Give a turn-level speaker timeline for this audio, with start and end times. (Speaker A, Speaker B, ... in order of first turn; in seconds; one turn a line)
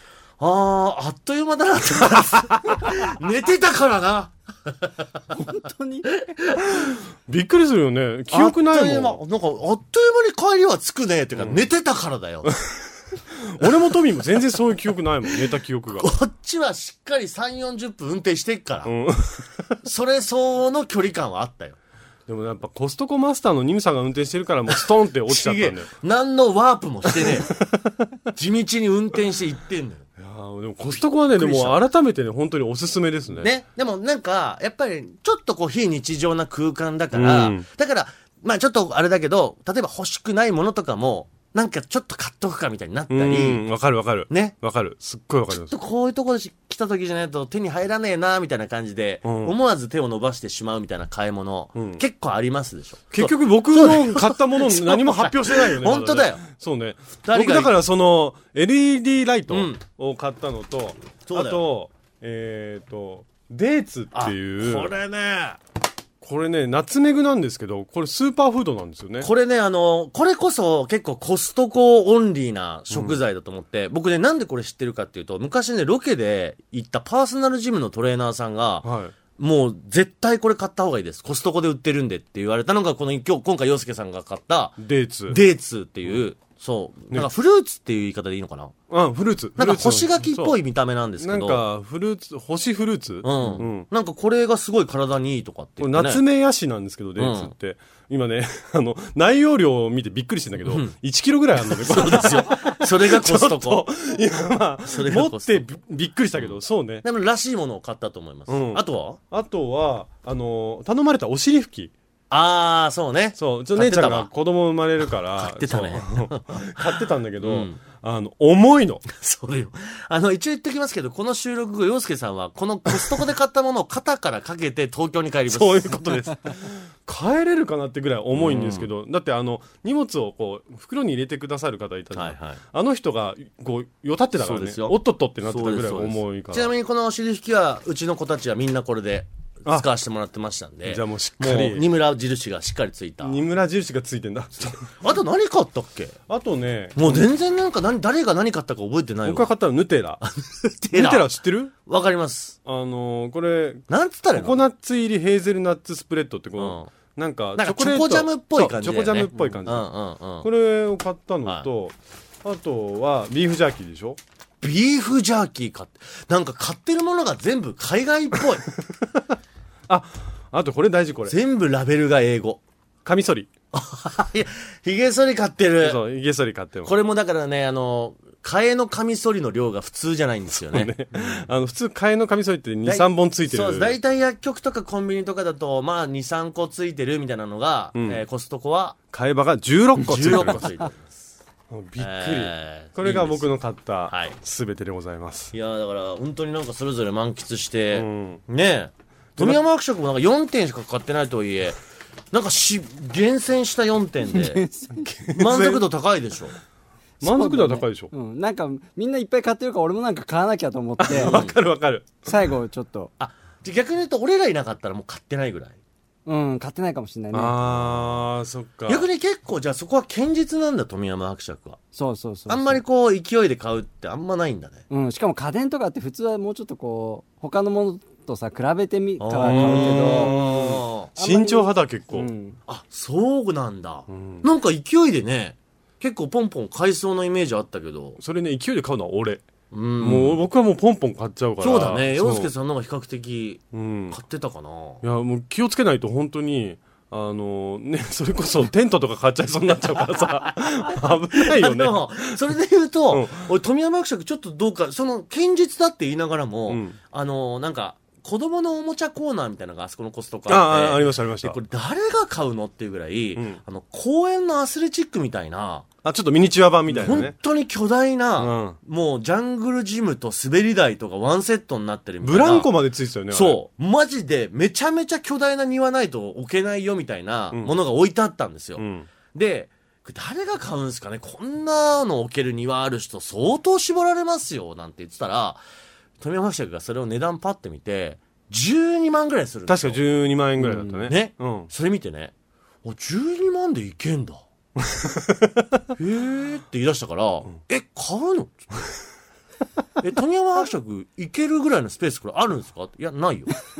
Speaker A: 0.4-5.0
Speaker B: 5.3-6.3
Speaker A: 6.4-7.0
Speaker C: 7.3-9.2
Speaker A: 8.3-12.5
Speaker C: 13.3-16.1
Speaker A: 16.0-18.9
Speaker C: 18.9-19.8
Speaker A: 19.8-21.8
Speaker C: 22.3-25.9
Speaker A: 25.3-27.5
Speaker C: 27.2-27.8
Speaker A: 28.3-30.0
Speaker C: 30.2-33.5
Speaker A: 31.3-31.8
Speaker A: 33.4-43.6
Speaker C: 37.1-37.7
Speaker C: 43.1-45.7
Speaker A: 44.3-44.5
Speaker A: 45.5-56.4
Speaker C: 49.2-49.5
Speaker C: 51.8-52.0
Speaker C: 53.1-64.9
Speaker A: 57.2-57.7
Speaker A: 59.5-59.8
Speaker A: 61.3-61.6
Speaker A: 64.1-65.6
Speaker C: 66.2-69.3
Speaker A: 69.2-88.7
Speaker C: 72.9-73.2
Speaker C: 78.8-79.1
Speaker C: 84.8-85.4
Speaker C: 88.9-90.6
Speaker A: 89.6-91.6
Speaker C: 91.2-93.9
Speaker A: 93.2-96.2
Speaker C: 95.8-107.0
Speaker A: 97.2-97.5
Speaker A: 100.7-100.9
Speaker A: 101.7-103.8
Speaker A: 104.9-105.6
Speaker A: 106.4-109.2
Speaker C: 108.5-111.9
Speaker A: 112.3-114.3
Speaker C: 113.4-119.0
Speaker A: 115.4-117.8
Speaker A: 119.1-126.1
Speaker C: 125.5-136.7
Speaker A: 128.3-128.9
Speaker A: 132.1-132.6
Speaker A: 134.4-143.4
Speaker C: 140.9-141.9
Speaker C: 143.2-145.0
Speaker A: 145.0-146.2
Speaker C: 146.3-147.3
Speaker A: 147.0-149.5
Speaker C: 149.2-150.2
Speaker A: 150.3-151.3
Speaker C: 150.9-151.7
Speaker A: 151.9-152.6
Speaker C: 152.7-159.9
Speaker A: 153.9-154.6
Speaker A: 156.6-156.9
Speaker A: 157.6-160.5
Speaker B: 159.3-159.6
Speaker C: 160.4-164.2
Speaker A: 164.6-168.7
Speaker C: 169.9-171.4
Speaker A: 171.3-172.6
Speaker C: 173.1-173.5
Speaker A: 173.7-176.0
Speaker C: 175.8-176.9
Speaker A: 176.8-180.9
Speaker C: 180.5-184.0
Speaker A: 182.8-189.0
Speaker C: 187.9-188.2
Speaker C: 189.1-190.8
Speaker A: 190.0-191.2
Speaker C: 191.7-195.5
Speaker A: 192.0-193.5
Speaker A: 194.1-194.4
Speaker A: 195.5-201.8
Speaker C: 197.9-198.4
Speaker A: 202.3-204.6
Speaker B: 204.3-205.1
Speaker C: 205.1-205.9
Speaker A: 205.3-206.6
Speaker C: 207.2-208.1
Speaker B: 207.2-211.4
Speaker C: 211.0-212.3
Speaker A: 211.1-211.6
Speaker B: 212.3-213.1
Speaker A: 213.2-215.8
Speaker B: 216.3-217.7
Speaker C: 217.3-219.1
Speaker A: 218.9-221.8
Speaker B: 221.9-222.8
Speaker A: 222.5-224.8
Speaker B: 224.9-230.3
Speaker A: 229.2-231.1
Speaker C: 229.4-232.3
Speaker B: 231.2-232.6
Speaker A: 232.7-238.2
Speaker C: 234.1-234.4
Speaker C: 238.2-239.4
Speaker A: 239.7-240.4
Speaker C: 240.0-242.5
Speaker A: 241.6-245.0
Speaker C: 243.7-244.2
Speaker C: 245.0-252.4
Speaker A: 251.3-265.9
Speaker C: 253.1-253.5
Speaker C: 256.7-257.0
Speaker C: 260.5-261.6
Speaker C: 266.0-267.3
Speaker A: 266.9-272.7
Speaker C: 268.4-268.8
Speaker C: 272.2-273.6
Speaker A: 273.3-285.6
Speaker C: 278.8-279.1
Speaker A: 286.2-290.0
Speaker C: 289.7-291.7
Speaker B: 290.6-291.1
Speaker A: 291.1-292.3
Speaker A: 292.8-294.4
Speaker C: 294.9-295.5
Speaker A: 296.0-298.7
Speaker A: 300.0-303.5